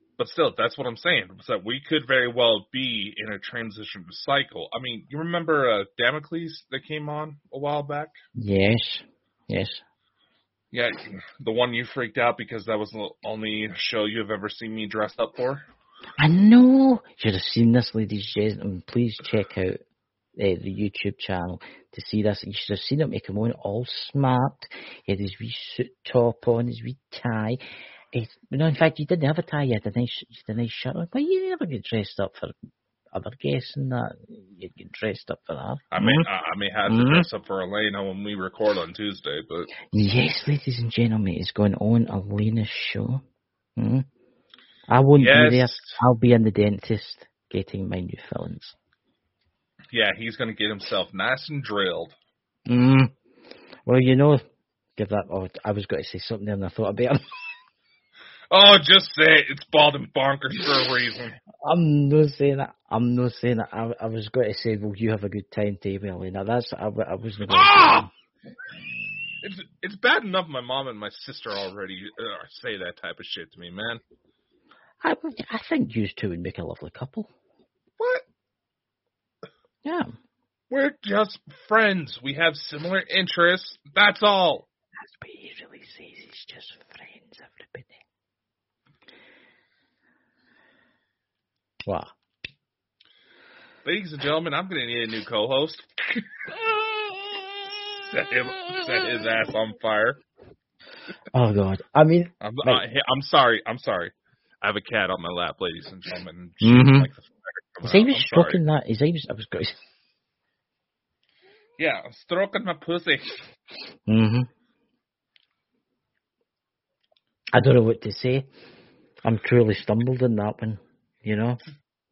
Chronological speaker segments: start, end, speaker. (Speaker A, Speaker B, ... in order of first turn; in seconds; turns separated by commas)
Speaker A: 0.2-8.2, Speaker B: 8.4-9.8, Speaker A: 10.7-15.7, Speaker B: 16.2-19.8, Speaker B: 20.4-27.6, Speaker B: 28.1-32.5, Speaker B: 33.1-36.3, Speaker A: 35.9-39.7, Speaker B: 36.9-37.3, Speaker B: 39.9-43.2, Speaker B: 43.8-44.1, Speaker B: 44.9-48.8, Speaker A: 45.2-46.0, Speaker A: 49.9-52.2, Speaker B: 52.7-53.1, Speaker B: 53.9-54.4, Speaker B: 55.0-57.3, Speaker A: 58.5-61.4, Speaker B: 61.6-68.1, Speaker A: 67.5-68.1, Speaker A: 69.4-74.0, Speaker B: 75.0-77.3, Speaker A: 78.0-78.2, Speaker B: 79.8-80.1, Speaker A: 80.7-84.7, Speaker B: 85.0-88.0, Speaker B: 91.8-92.1, Speaker A: 93.8-100.2, Speaker B: 101.3-102.8, Speaker A: 102.4-108.6, Speaker B: 106.6-107.1, Speaker B: 107.8-109.8, Speaker A: 111.8-113.4, Speaker B: 114.1-114.5, Speaker B: 117.5-118.5, Speaker B: 119.2-121.6